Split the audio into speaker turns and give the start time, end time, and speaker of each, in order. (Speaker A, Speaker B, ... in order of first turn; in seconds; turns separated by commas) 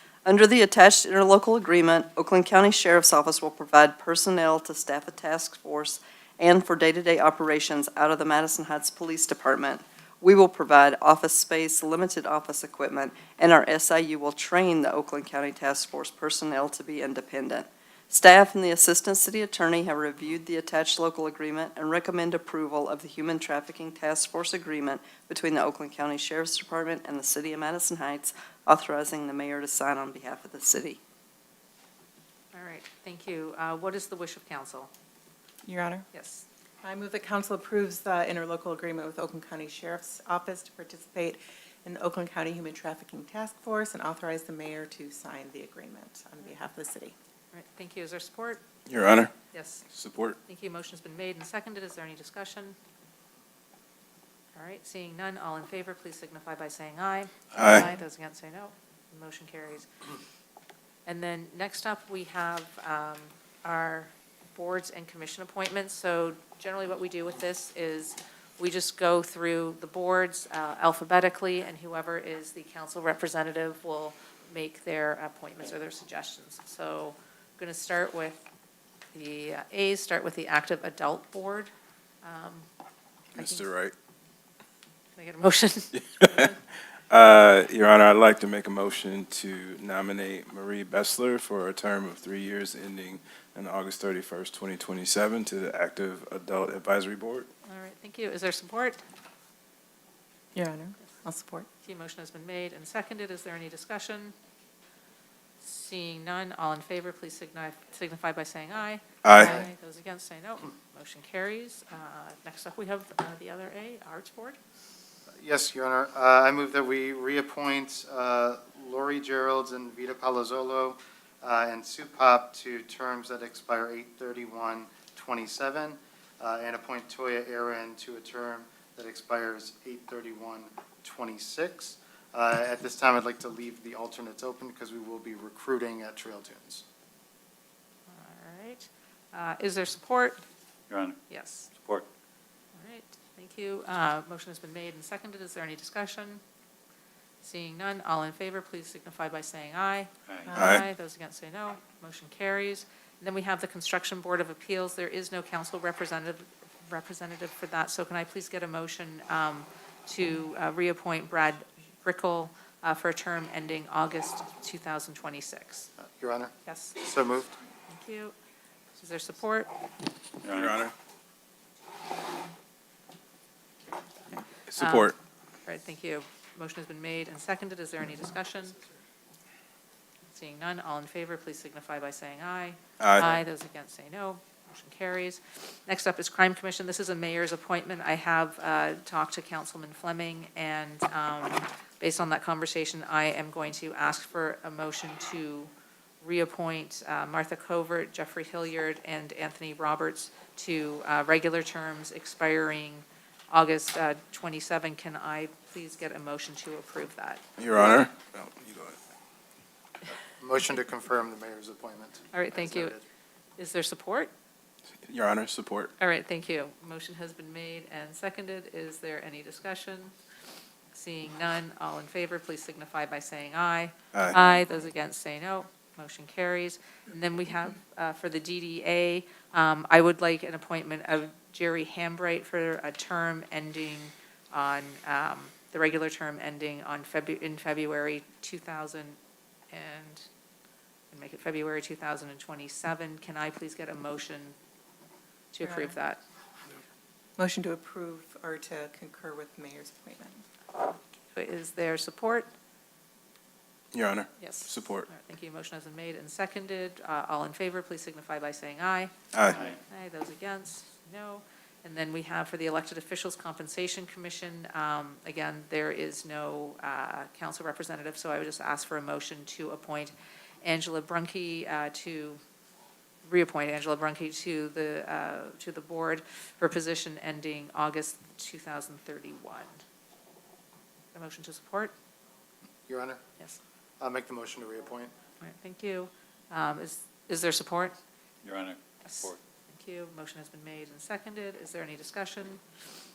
Speaker A: 0.2-31.0, Speaker B: 32.5-34.9, Speaker C: 35.6-36.1, Speaker B: 36.1-36.4, Speaker C: 36.8-47.1, Speaker B: 47.5-48.6, Speaker D: 48.9-49.3, Speaker B: 49.5-49.8, Speaker D: 49.9-50.4, Speaker B: 50.5-52.8, Speaker B: 54.5-59.9, Speaker D: 57.5-57.9, Speaker B: 61.1-78.4, Speaker B: 79.1-81.7, Speaker B: 82.2-82.7, Speaker B: 83.3-83.7, Speaker D: 83.3-83.9, Speaker B: 85.2-86.4, Speaker D: 85.9-86.5, Speaker D: 87.1-97.5, Speaker B: 97.7-99.0, Speaker C: 100.5-101.7, Speaker B: 101.9-104.3, Speaker B: 105.6-114.6, Speaker D: 109.2-109.6, Speaker E: 109.4-109.7, Speaker E: 115.4-136.8, Speaker B: 138.1-140.4, Speaker F: 140.9-141.2, Speaker B: 141.3-141.7, Speaker F: 141.7-142.1, Speaker B: 142.8-146.4, Speaker B: 147.4-165.9, Speaker F: 150.3-150.5, Speaker C: 150.5-150.8, Speaker D: 150.5-150.8, Speaker E: 166.0-167.6, Speaker B: 166.7-166.9, Speaker B: 168.0-168.3, Speaker B: 169.0-169.7, Speaker F: 170.4-170.8, Speaker D: 170.5-170.9, Speaker D: 174.7-175.1, Speaker B: 175.7-178.8, Speaker B: 180.3-195.7, Speaker D: 183.0-183.4, Speaker B: 196.2-207.4, Speaker D: 207.6-209.0, Speaker E: 210.4-213.0, Speaker B: 212.3-212.9, Speaker B: 213.6-214.3, Speaker D: 215.1-215.9, Speaker B: 216.0-220.1, Speaker B: 220.9-239.2, Speaker D: 224.1-224.6, Speaker B: 239.7-240.2, Speaker B: 241.1-244.5, Speaker B: 245.5-246.2, Speaker C: 245.6-246.0, Speaker C: 247.4-250.4, Speaker B: 251.3-252.5, Speaker D: 253.9-255.1, Speaker B: 254.4-259.1, Speaker D: 259.3-259.7, Speaker B: 259.9-270.1, Speaker B: 270.6-272.4, Speaker B: 273.2-279.8, Speaker B: 281.1-281.9, Speaker E: 282.9-283.2, Speaker E: 284.0-285.1, Speaker B: 285.4-287.9, Speaker F: 288.4-289.4, Speaker B: 289.8-292.6